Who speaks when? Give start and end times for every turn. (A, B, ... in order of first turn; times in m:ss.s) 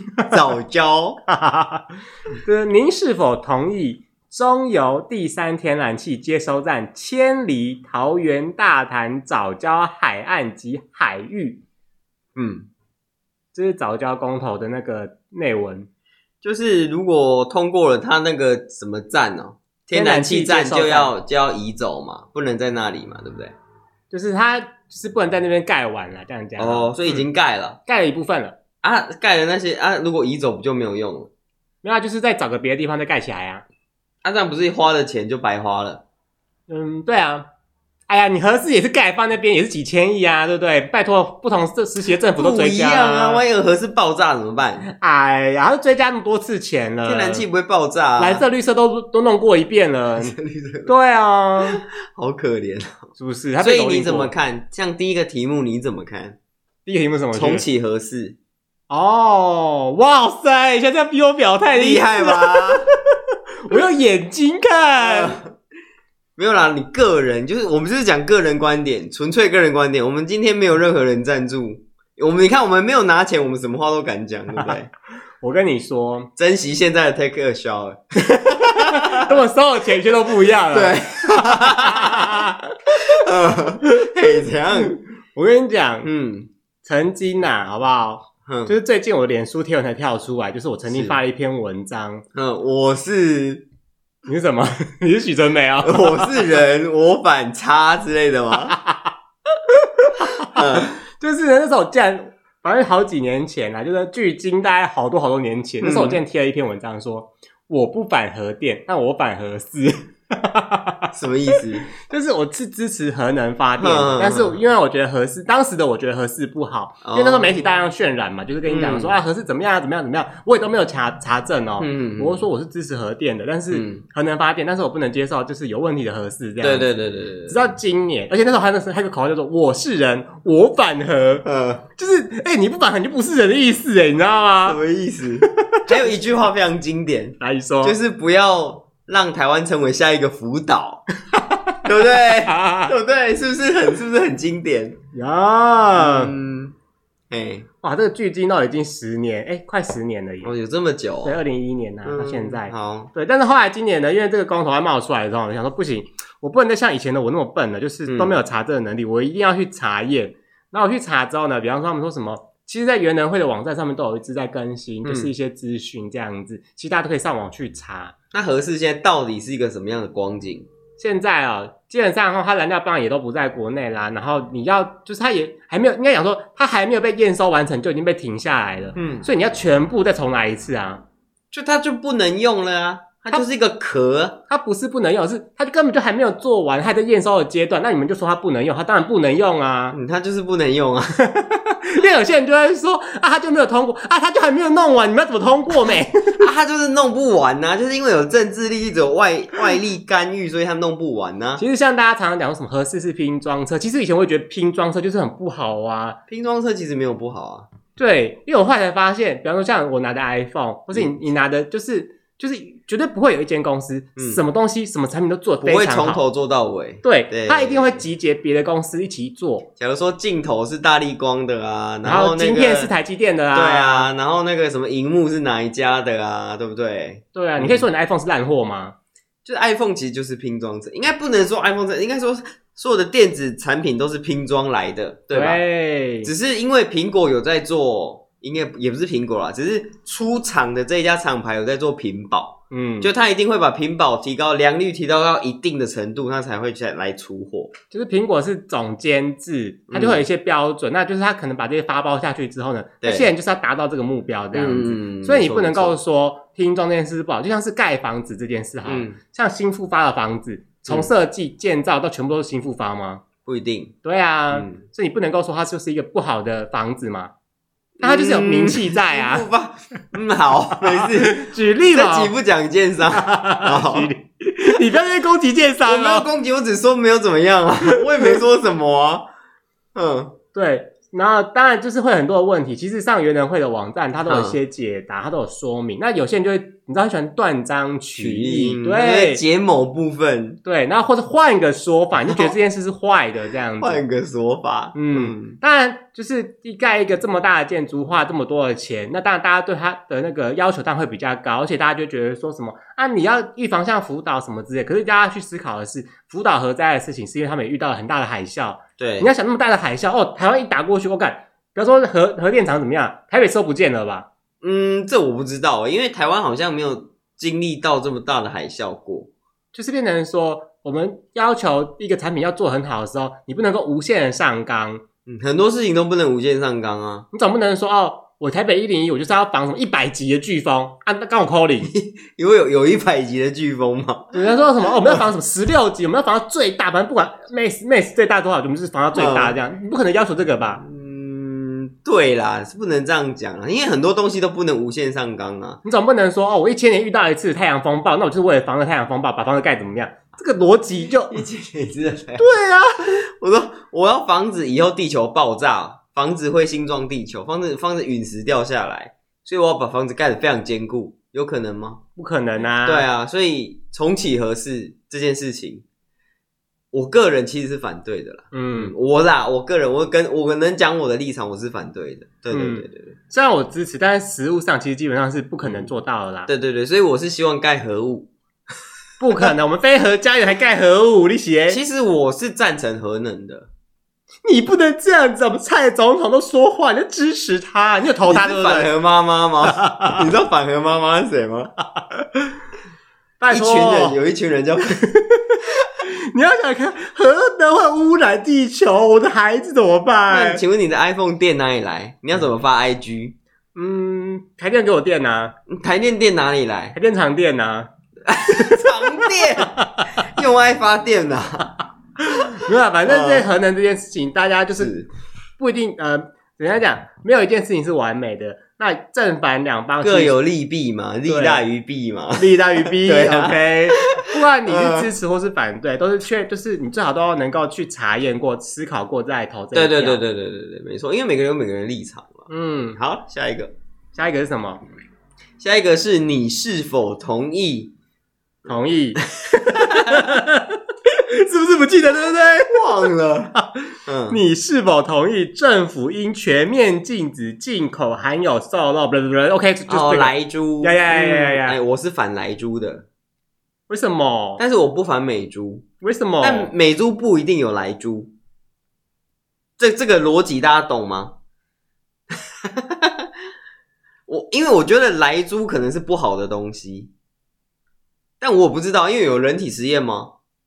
0:00.3-0:01.2 A
0:01.3-0:11.6 B
0:12.4-0:12.7 A
0:13.5-0:15.9 B
0:16.4-0:23.5 A
0:19.9-0:21.1 B
0:24.1-0:27.2 B
0:26.6-0:27.8 A
0:27.9-0:28.6 B
0:28.8-0:31.3 A
0:31.8-0:33.6 B
0:34.2-0:36.0 A
0:36.7-0:37.5 B
0:38.1-0:43.4 B
0:42.3-0:44.9 A
0:44.8-0:47.4 B
0:47.0-0:48.4 A
0:48.2-0:50.4 B
0:50.2-0:50.9 A
0:50.9-0:51.8 B
0:51.6-0:56.4 A
0:53.2-0:54.3 B
0:56.9-0:57.6 B
0:57.3-0:58.4 A
0:58.9-1:03.0 B
1:01.7-1:02.9 A
1:03.6-1:05.4 B
1:05.0-1:05.6 A
1:06.4-1:14.9 A
1:15.4-1:16.3 B
1:16.4-1:19.4 A
1:18.7-1:22.8 B
1:20.7-1:22.5 A
1:23.0-1:25.0 A
1:23.9-1:26.1 B
1:26.0-1:26.5 A
1:26.8-1:32.2 B
1:28.5-1:28.7 A
1:30.9-1:31.2 A
1:32.3-1:33.6 A
1:34.3-1:36.6 B
1:35.8-1:38.8 A
1:38.7-1:39.1 B
1:39.8-1:51.1 B
1:40.4-1:41.0 A
1:45.8-1:46.2 A
1:51.1-1:51.9 A
1:52.0-2:06.9 B
1:53.8-1:54.6 A
1:57.0-1:57.6 A
1:58.7-1:59.2 A
2:01.8-2:02.4 A
2:03.7-2:04.0 A
2:06.6-2:07.7 A
2:07.5-2:14.8 B
2:11.4-2:11.9 A
2:14.7-2:21.0 A
2:15.5-2:15.9 B
2:17.4-2:18.0 B
2:21.3-2:22.9 B
2:21.8-2:25.0 A
2:25.1-2:26.3 B
2:26.0-2:26.8 A
2:27.3-2:27.7 A
2:27.8-2:30.5 B
2:30.4-2:31.4 A
2:31.2-2:48.1 B
2:32.0-2:33.1 A
2:38.1-2:38.4 A
2:45.0-2:45.3 A
2:48.3-2:50.7 A
2:51.0-3:01.0 B
2:59.0-2:59.3 A
3:01.5-3:04.4 A
3:04.5-3:10.0 B
3:09.9-3:11.2 A
3:11.2-3:16.4 B
3:16.4-3:21.6 A
3:21.6-3:26.2 B
3:26.3-3:27.7 A
3:28.0-3:36.2 B
3:34.2-3:34.4 A
3:35.6-3:38.0 A
3:37.0-3:39.7 B
3:39.8-3:42.9 A
3:42.0-3:44.1 B
3:43.5-3:47.8 A
3:47.3-3:49.0 B
3:49.4-3:55.6 A
3:55.3-3:56.3 B
3:56.2-4:07.7 A
4:02.7-4:03.1 B
4:07.9-4:23.2 B
4:09.9-4:10.2 A
4:13.0-4:13.3 A
4:14.5-4:16.0 A
4:18.9-4:19.2 A
4:23.5-4:23.9 A
4:24.0-4:27.3 B
4:24.5-4:24.8 A
4:28.0-4:34.1 A
4:28.0-4:29.5 B
4:30.8-4:32.3 B
4:33.1-4:36.3 B
4:35.8-4:39.3 A
4:37.9-4:38.4 B
4:40.0-4:40.4 A
4:40.5-4:49.4 B
4:44.3-4:44.6 A
4:48.2-4:50.6 A
4:50.6-4:54.0 B
4:52.2-4:52.5 A
4:53.8-4:55.6 A
4:54.9-5:14.3 B
5:09.0-5:09.3 A
5:14.6-5:19.3 A
5:19.7-5:25.0 B
5:25.3-5:27.3 A
5:27.3-5:31.9 B
5:31.8-5:35.2 A
5:34.3-5:40.8 B
5:39.2-5:39.6 A
5:40.8-5:45.8 A
5:45.8-5:51.4 B
5:51.3-5:52.5 A
5:52.4-5:53.2 B
5:53.1-6:02.0 A
6:02.2-6:03.1 B
6:02.8-6:05.8 A
6:06.9-6:13.2 A
6:08.5-6:08.9 B
6:12.5-6:16.5 B
6:15.6-6:15.9 A
6:16.5-6:18.3 A
6:19.2-6:21.8 B
6:21.7-6:23.7 A
6:24.4-6:28.9 B
6:28.2-6:31.7 A
6:29.6-6:30.2 B
6:33.4-6:34.2 B
6:33.5-6:35.0 A
6:35.0-6:40.6 B
6:40.3-6:43.4 A
6:43.8-6:45.6 B
6:45.7-6:47.0 A
6:47.0-6:47.9 B
6:48.3-6:51.7 A
6:48.5-6:50.1 B
6:52.2-6:54.9 B
6:53.1-6:53.5 A
6:54.8-6:55.1 A
6:55.6-7:00.4 B
7:00.0-7:05.1 A
7:01.3-7:01.6 B
7:02.4-7:10.2 B
7:09.7-7:13.7 A
7:12.5-7:13.0 B
7:14.2-7:14.8 B
7:15.6-7:17.9 A
7:18.7-7:23.7 B
7:19.5-7:20.3 A
7:22.6-7:23.6 A
7:24.1-7:24.4 A
7:24.3-7:31.8 B
7:29.9-7:33.1 A
7:33.9-7:34.6 B
7:34.6-7:35.9 A
7:36.0-7:36.7 B
7:36.4-7:38.3 A
7:39.8-7:41.4 A
7:42.4-7:43.3 A
7:44.3-7:47.1 A
7:48.4-7:50.3 A